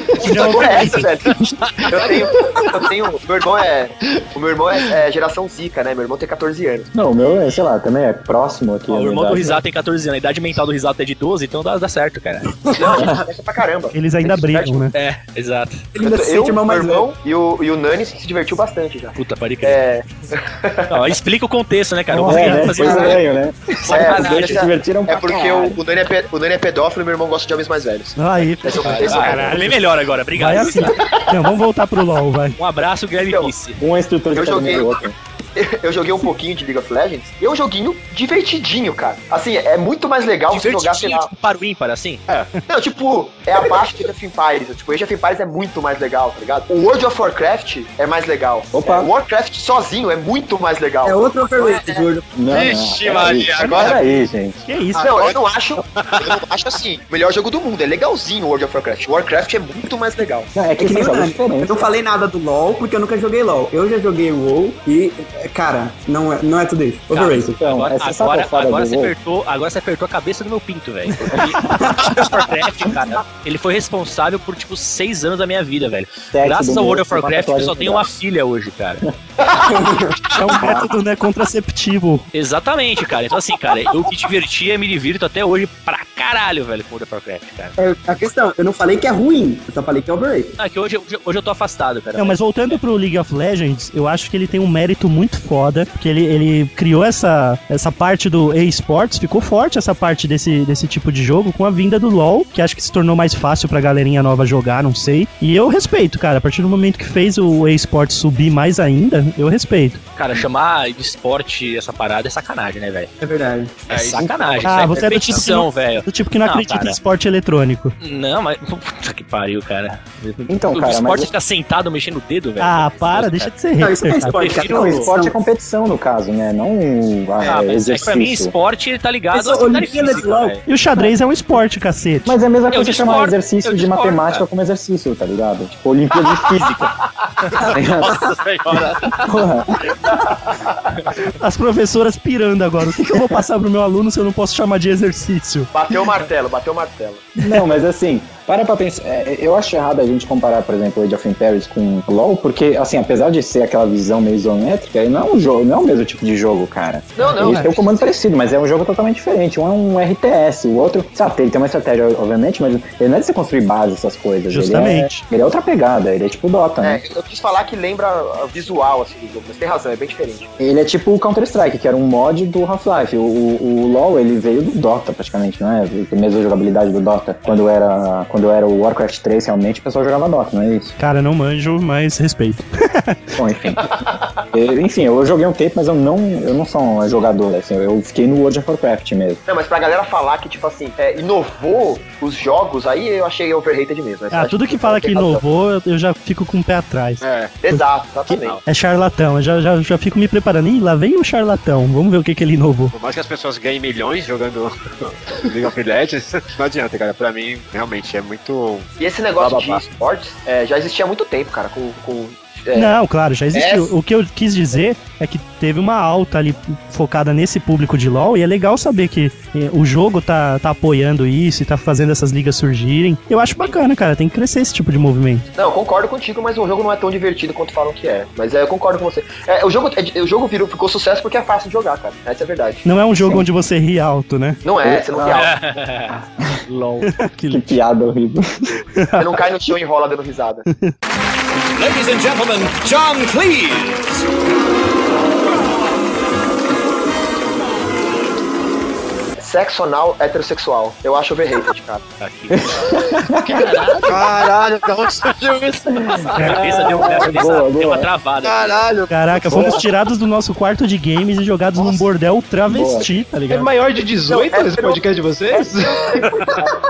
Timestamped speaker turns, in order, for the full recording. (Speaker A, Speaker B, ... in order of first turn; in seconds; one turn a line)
Speaker A: 0.2-1.1
Speaker B: 0.2-6.9
Speaker C: 6.9-9.6
Speaker D: 8.9-12.7
Speaker B: 12.7-14.9
Speaker A: 13.9-14.9
Speaker D: 14.9-15.8
Speaker E: 15.9-17.1
Speaker B: 16.0-21.0
Speaker D: 19.2-19.8
Speaker D: 20.9-23.2
Speaker C: 22.1-25.8
Speaker A: 22.2-22.9
Speaker E: 22.8-23.1
Speaker D: 23.8-24.7
Speaker B: 23.9-29.7
Speaker A: 28.2-29.8
Speaker D: 28.8-31.0
Speaker A: 30.4-32.6
Speaker B: 30.6-31.2
Speaker D: 32.6-33.8
Speaker B: 33.2-33.5
Speaker C: 33.8-35.1
Speaker B: 34.3-35.0
Speaker B: 35.6-41.3
Speaker D: 40.5-42.2
Speaker B: 42.7-52.1
Speaker C: 48.7-49.1
Speaker E: 51.0-52.3
Speaker C: 52.4-54.6
Speaker F: 52.5-54.1
Speaker B: 53.7-53.9
Speaker A: 54.7-55.2
Speaker B: 55.0-60.5
Speaker F: 55.1-55.4
Speaker F: 56.0-56.4
Speaker C: 60.5-61.9
Speaker E: 60.8-67.6
Speaker D: 67.1-79.0
Speaker C: 67.6-69.1
Speaker A: 71.1-72.1
Speaker E: 71.8-72.4
Speaker C: 76.3-78.1
Speaker E: 79.6-80.2
Speaker A: 80.3-82.3
Speaker D: 82.3-87.8
Speaker E: 87.8-90.5
Speaker D: 90.6-92.8
Speaker A: 92.2-110.0
Speaker D: 110.2-113.1
Speaker E: 113.2-113.7
Speaker F: 113.9-115.5
Speaker D: 113.9-117.0
Speaker A: 114.6-118.0
Speaker D: 118.0-123.5
Speaker C: 120.5-121.3
Speaker A: 122.6-124.4
Speaker E: 123.8-125.3
Speaker D: 124.2-125.1
Speaker C: 124.6-128.5
Speaker D: 127.5-130.6
Speaker E: 129.3-131.0
Speaker A: 130.7-132.3
Speaker C: 132.3-136.9
Speaker D: 132.7-134.4
Speaker F: 137.7-139.2
Speaker C: 137.7-138.2
Speaker C: 139.2-140.0
Speaker A: 141.4-145.7
Speaker C: 143.1-143.4
Speaker B: 145.7-147.3
Speaker C: 147.4-167.0
Speaker B: 157.2-157.9
Speaker A: 164.5-165.2
Speaker B: 166.8-170.5
Speaker C: 170.6-180.9
Speaker A: 181.0-183.2
Speaker C: 183.4-189.4
Speaker B: 189.5-195.4
Speaker A: 194.3-197.8
Speaker F: 197.2-197.6
Speaker B: 197.6-198.6
Speaker A: 198.7-202.9
Speaker F: 202.9-209.8
Speaker B: 209.0-213.0
Speaker A: 212.7-225.5
Speaker B: 213.5-213.9
Speaker B: 225.6-233.3
Speaker A: 232.8-234.6
Speaker B: 234.6-235.6
Speaker C: 234.8-235.5
Speaker D: 235.3-236.1
Speaker C: 236.2-236.6
Speaker D: 236.7-237.1
Speaker A: 237.0-237.7
Speaker C: 237.5-238.8
Speaker A: 239.0-239.4
Speaker B: 239.2-240.7
Speaker G: 241.8-244.1
Speaker B: 249.4-252.0
Speaker D: 252.2-254.2
Speaker C: 252.5-253.7
Speaker F: 254.1-257.2
Speaker C: 255.9-258.1
Speaker D: 256.4-258.9
Speaker A: 256.4-256.7
Speaker F: 258.4-259.8
Speaker A: 259.1-263.7
Speaker C: 259.5-259.8
Speaker F: 261.8-262.0
Speaker C: 262.7-263.1
Speaker H: 263.5-266.1
Speaker B: 264.3-266.7
Speaker F: 266.2-266.6